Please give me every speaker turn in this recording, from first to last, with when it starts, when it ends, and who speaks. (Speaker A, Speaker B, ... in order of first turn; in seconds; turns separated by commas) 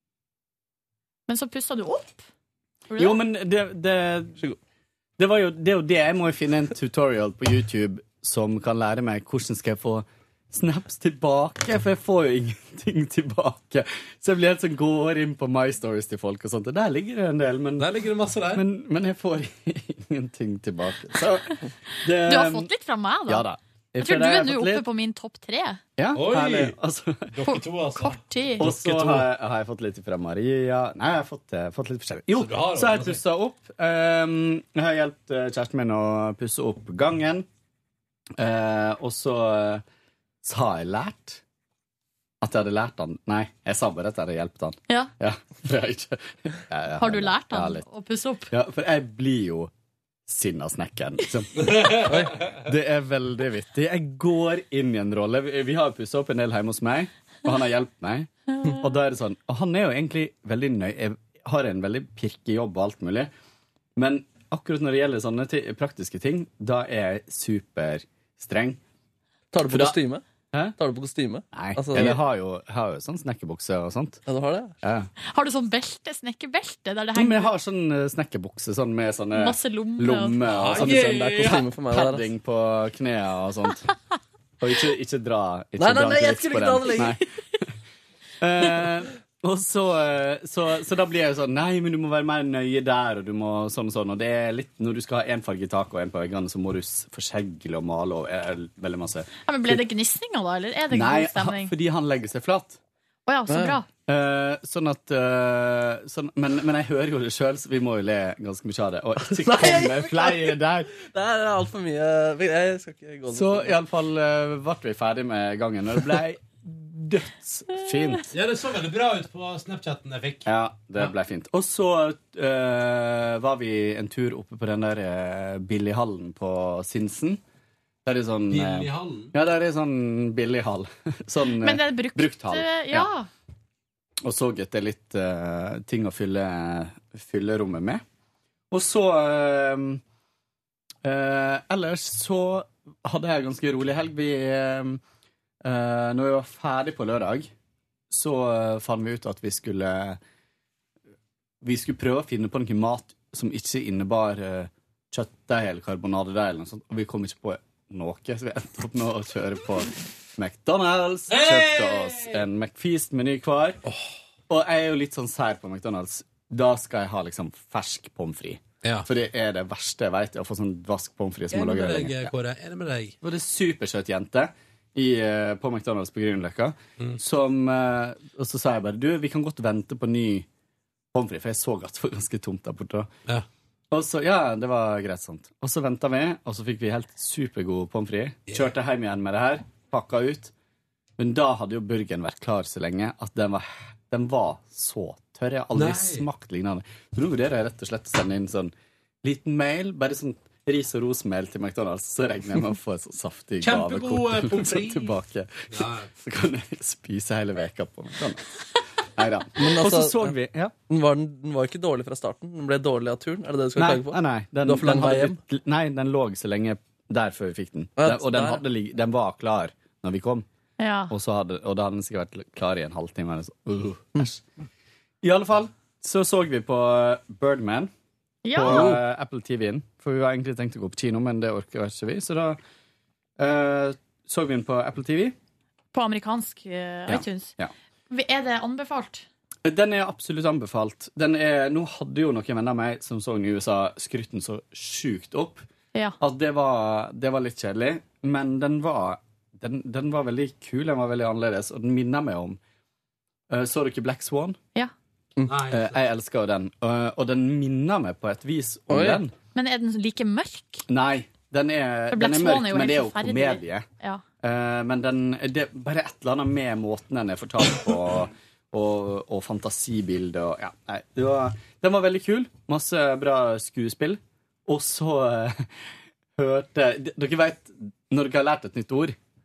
Speaker A: 1.3-2.3, Speaker A: 2.9-3.2, Speaker B: 3.0-4.4, Speaker B: 5.2-17.9, Speaker C: 17.8-18.6, Speaker B: 18.6-22.7, Speaker A: 22.2-23.4, Speaker B: 23.3-24.9, Speaker A: 24.0-25.8, Speaker B: 26.0-27.3, Speaker C: 26.1-26.8, Speaker C: 27.3-29.3, Speaker A: 27.4-28.7, Speaker B: 28.6-37.5, Speaker C: 32.3-33.2, Speaker B: 38.4-39.8, Speaker B: 40.4-41.4, Speaker B: 42.4-47.8, Speaker A: 47.0-48.5, Speaker B: 48.5-49.7, Speaker B: 50.3-63.3, Speaker C: 51.6-52.3, Speaker D: 52.1-52.4, Speaker B: 64.0-68.8, Speaker D: 69.5-70.2, Speaker B: 69.7-70.0, Speaker D: 70.8-72.2, Speaker B: 71.5-74.2, Speaker D: 74.3-74.8, Speaker B: 74.8-75.1, Speaker A: 75.3-77.5, Speaker B: 77.2-83.9, Speaker A: 79.3-80.4, Speaker C: 80.5-81.6, Speaker D: 80.8-82.3, Speaker B: 84.6-87.2, Speaker D: 85.8-87.2, Speaker B: 88.4-99.8, Speaker A: 99.5-101.7, Speaker B: 100.9-102.8, Speaker A: 103.3-103.9, Speaker D: 103.5-103.8, Speaker B: 104.1-111.0, Speaker D: 109.4-113.7, Speaker B: 113.3-118.3, Speaker C: 118.3-120.5, Speaker B: 120.5-127.4, Speaker B: 128.1-133.1, Speaker C: 128.5-129.3, Speaker A: 131.6-133.3, Speaker B: 134.2-138.0, Speaker B: 138.7-140.0, Speaker B: 141.0-145.0, Speaker B: 145.6-147.5, Speaker B: 148.1-150.2, Speaker B: 151.6-163.8, Speaker C: 161.3-162.4, Speaker B: 164.5-172.3, Speaker C: 168.8-169.1, Speaker C: 171.5-173.2, Speaker B: 173.2-180.5, Speaker B: 181.1-183.1, Speaker B: 183.9-190.5, Speaker B: 191.2-198.7, Speaker C: 195.8-196.2, Speaker B: 199.2-208.5, Speaker C: 203.6-205.1, Speaker C: 205.7-206.1, Speaker B: 209.2-210.7, Speaker D: 209.6-210.3, Speaker D: 210.9-215.4, Speaker B: 213.8-220.5, Speaker D: 218.0-218.6, Speaker A: 220.8-221.1, Speaker B: 221.1-224.4, Speaker B: 225.2-227.9, Speaker A: 228.4-228.9, Speaker B: 228.5-232.6, Speaker C: 228.7-229.0, Speaker B: 233.4-235.3, Speaker A: 235.9-237.5, Speaker B: 237.1-237.7, Speaker A: 238.1-239.3, Speaker B: 239.7-245.7, Speaker B: 246.2-252.6, Speaker B: 253.5-254.6, Speaker C: 255.5-256.0, Speaker B: 255.7-259.3, Speaker D: 258.9-259.2, Speaker A: 259.5-260.9, Speaker B: 260.9-263.9, Speaker A: 262.1-264.2, Speaker B: 264.4-275.7, Speaker B: 276.4-279.2